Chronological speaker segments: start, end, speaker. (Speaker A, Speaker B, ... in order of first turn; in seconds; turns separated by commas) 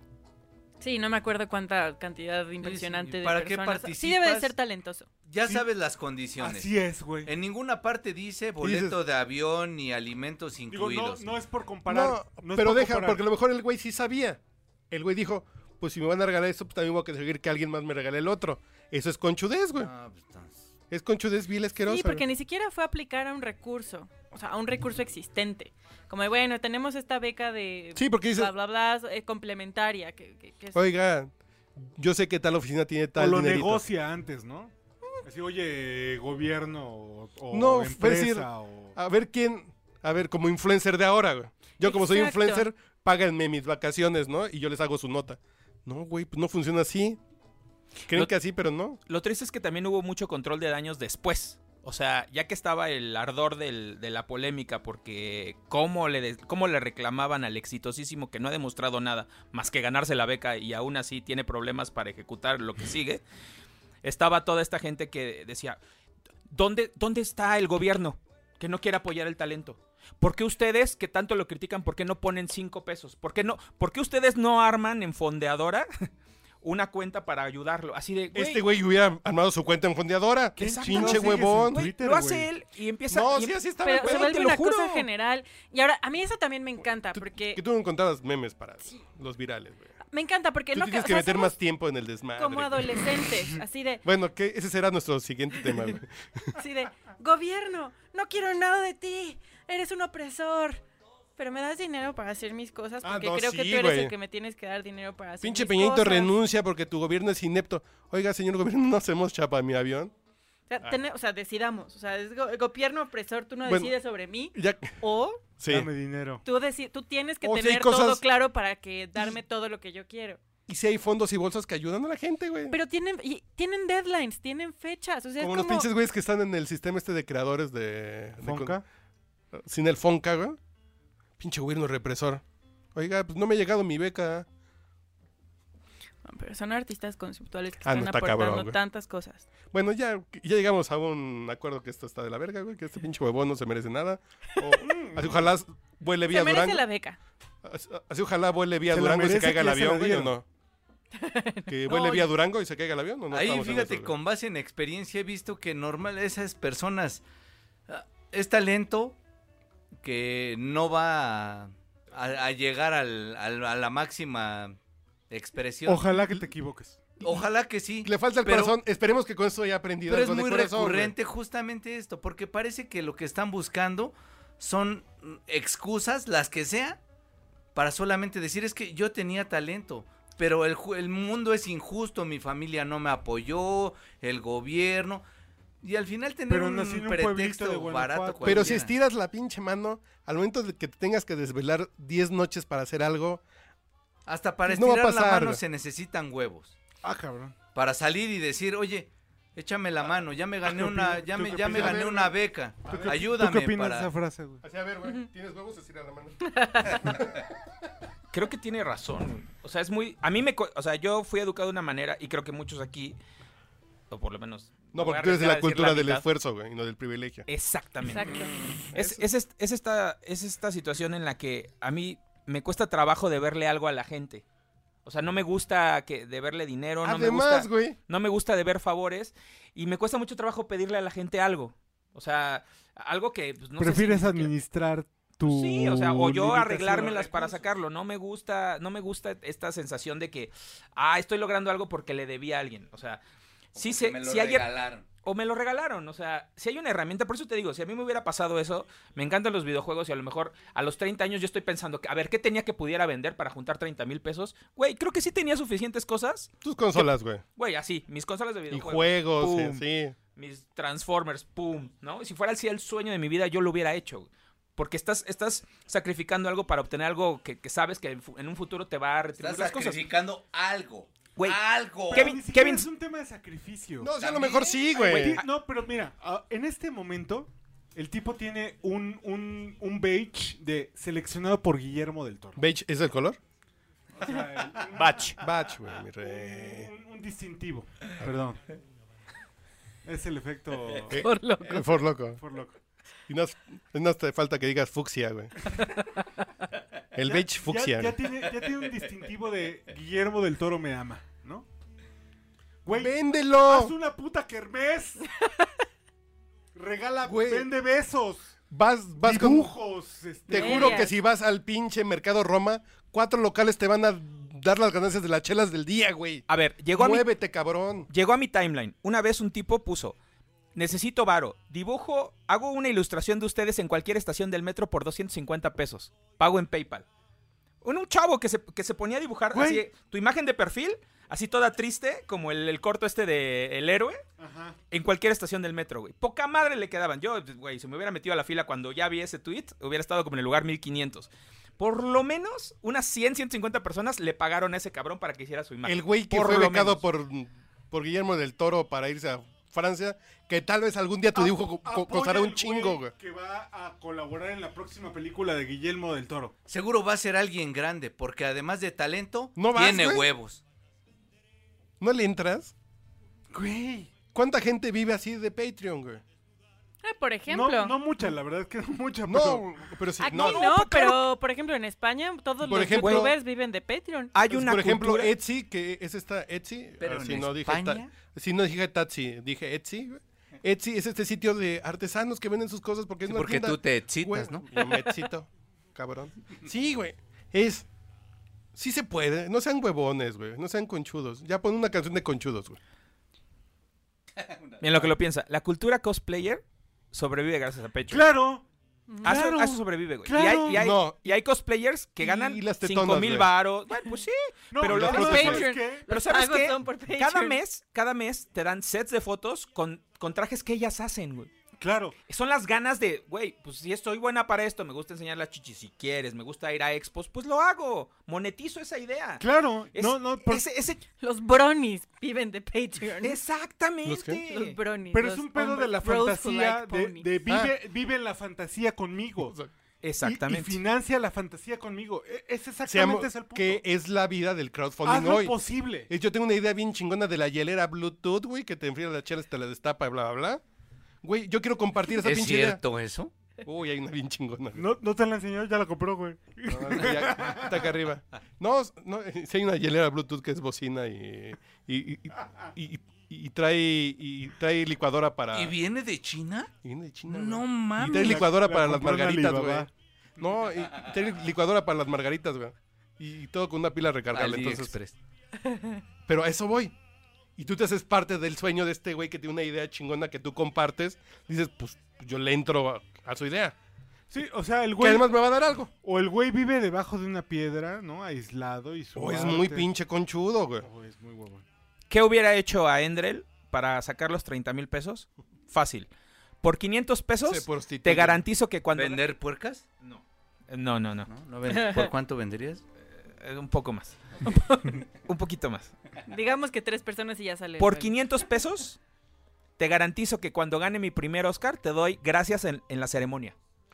Speaker A: 0.8-5.1, Speaker B: 2.6-4.5, Speaker B: 5.3-6.7, Speaker C: 6.4-7.3, Speaker B: 7.2-11.3, Speaker D: 8.6-9.0, Speaker C: 10.7-13.2, Speaker D: 11.9-19.9, Speaker B: 19.8-20.7, Speaker D: 20.9-22.2, Speaker A: 21.9-30.8, Speaker D: 27.9-28.5, Speaker D: 30.7-33.8, Speaker C: 33.2-34.7, Speaker C: 35.2-39.0, Speaker D: 37.5-47.2, Speaker A: 41.8-42.7, Speaker D: 48.1-49.0, Speaker E: 49.1-63.2, Speaker E: 64.0-65.8, Speaker E: 66.5-75.9, Speaker E: 76.6-78.7, Speaker D: 78.3-81.9, Speaker C: 80.6-82.5, Speaker E: 80.6-85.1, Speaker D: 83.1-84.5, Speaker A: 83.8-87.6, Speaker D: 87.1-89.9, Speaker A: 90.1-91.5, Speaker D: 90.7-93.0, Speaker A: 92.4-94.0, Speaker D: 94.0-96.5, Speaker A: 96.6-100.8, Speaker A: 101.4-106.3, Speaker D: 103.0-104.2, Speaker D: 105.4-110.1, Speaker A: 110.7-115.4, Speaker D: 113.7-113.9, Speaker D: 114.5-115.9, Speaker C: 115.7-116.4, Speaker A: 116.4-120.4, Speaker D: 117.4-118.2, Speaker D: 120.7-122.8, Speaker A: 122.7-125.9, Speaker D: 125.4-128.8, Speaker C: 128.4-128.8, Speaker D: 129.5-130.6, Speaker D: 131.4-132.4, Speaker D: 132.9-134.5, Speaker A: 136.2-139.5, Speaker D: 137.8-138.8, Speaker D: 139.7-146.8, Speaker C: 144.8-145.3, Speaker A: 146.3-147.2, Speaker D: 147.6-150.4, Speaker C: 148.9-150.4, Speaker A: 151.2-152.3, Speaker D: 151.7-154.1, Speaker B: 153.3-157.2, Speaker B: 157.9-159.2, Speaker B: 160.0-164.8, Speaker B: 165.3-166.1, Speaker C: 165.9-167.1, Speaker B: 167.2-168.8, Speaker D: 168.0-171.1, Speaker B: 170.1-177.0, Speaker B: 177.7-185.2, Speaker B: 185.8-188.9, Speaker C: 186.5-188.8, Speaker D: 188.4-193.4, Speaker B: 194.3-196.8, Speaker D: 194.7-195.6, Speaker C: 197.0-197.5, Speaker B: 197.7-204.1, Speaker C: 200.7-202.2, Speaker D: 201.6-203.2, Speaker C: 202.9-204.6, Speaker D: 204.6-207.1, Speaker A: 206.5-207.3, Speaker E: 208.3-213.2, Speaker E: 214.1-216.2, Speaker D: 214.9-217.5, Speaker E: 217.5-224.4, Speaker A: 218.1-218.5, Speaker D: 218.9-219.2, Speaker E: 225.1-234.5, Speaker D: 227.0-228.0, Speaker C: 233.8-237.3, Speaker E: 235.4-243.2, Speaker E: 243.8-244.7, Speaker B: 243.8-245.1, Speaker E: 245.2-259.8, Speaker D: 256.6-257.4, Speaker D: 258.7-260.2, Speaker E: 260.4-270.0, Speaker B: 269.4-272.4, Speaker E: 272.1-272.9, Speaker C: 272.1-274.1, Speaker D: 274.0-275.4, Speaker B: 274.2-275.1, Speaker C: 275.0-282.6, Speaker E: 275.1-275.4, Speaker D: 282.6-283.4, Speaker C: 284.1-285.3, Speaker E: 285.0-285.4, Speaker D: 285.4-286.9, Speaker C: 286.2-288.6, Speaker C: 290.1-291.2, Speaker D: 291.1-292.4, Speaker A: 291.2-291.9, Speaker C: 292.4-292.7, Speaker D: 293.3-295.7, Speaker D: 297.1-298.2, Speaker C: 297.2-301.7, Speaker C: 302.9-305.3, Speaker D: 302.9-303.9, Speaker C: 306.8-308.5, Speaker D: 307.2-307.7, Speaker D: 308.7-309.7, Speaker C: 309.2-311.1, Speaker A: 310.5-311.1, Speaker D: 310.5-316.4, Speaker E: 316.5-317.3, Speaker D: 316.9-318.1, Speaker E: 318.1-320.2, Speaker E: 320.8-327.1, Speaker E: 327.8-334.2, Speaker C: 329.5-329.8, Speaker C: 334.4-334.8, Speaker E: 334.9-347.0, Speaker D: 345.9-353.1, Speaker C: 351.4-356.5, Speaker B: 356.7-360.6, Speaker D: 359.6-360.3, Speaker D: 362.0-362.7, Speaker C: 363.5-364.1, Speaker D: 364.3-366.2, Speaker A: 367.0-368.0, Speaker C: 367.5-369.7, Speaker D: 369.2-370.7, Speaker A: 370.2-374.3, Speaker E: 370.3-371.3, Speaker D: 372.6-373.4, Speaker E: 373.0-373.3, Speaker E: 374.3-375.3, Speaker D: 374.5-387.9, Speaker B: 377.0-378.1, Speaker B: 383.3-384.7, Speaker D: 388.8-392.8, Speaker B: 394.4-394.8, Speaker E: 394.8-398.3, Speaker C: 398.1-398.6, Speaker A: 399.1-399.4, Speaker C: 399.2-400.9, Speaker E: 399.2-411.5, Speaker D: 400.7-401.4, Speaker D: 402.2-403.5, Speaker C: 404.7-406.1, Speaker D: 404.9-405.5, Speaker A: 405.1-407.6, Speaker C: 411.8-412.1, Speaker E: 412.3-421.0, Speaker C: 419.4-420.6, Speaker A: 421.2-423.4, Speaker E: 423.2-424.8, Speaker D: 424.1-424.4, Speaker A: 424.4-427.4, Speaker C: 425.1-429.6, Speaker D: 427.5-427.7, Speaker D: 429.4-429.7, Speaker E: 430.0-430.8, Speaker C: 430.2-433.8, Speaker D: 432.9-440.6, Speaker C: 435.1-436.1, Speaker D: 441.2-442.8, Speaker B: 442.2-443.3, Speaker D: 443.6-444.9, Speaker C: 444.8-447.9, Speaker D: 446.7-455.8, Speaker B: 455.5-456.7, Speaker D: 456.8-465.0, Speaker B: 457.3-458.4, Speaker C: 458.0-459.9, Speaker B: 464.3-465.1, Speaker A: 465.6-465.9, Speaker D: 466.3-466.9, Speaker D: 467.6-473.8, Speaker C: 474.3-475.4, Speaker D: 475.0-475.9, Speaker C: 476.0-479.9, Speaker D: 479.1-480.9, Speaker C: 480.8-481.6, Speaker E: 482.1-486.1, Speaker E: 486.6-489.3, Speaker D: 487.4-488.4, Speaker B: 488.9-489.9, Speaker E: 490.0-491.3, Speaker B: 491.3-492.8, Speaker A: 491.7-492.1, Speaker E: 493.1-494.2, Speaker A: 494.4-495.0, Speaker E: 495.2-495.9, Speaker A: 496.3-498.1, Speaker E: 497.8-499.0, Speaker E: 499.8-503.6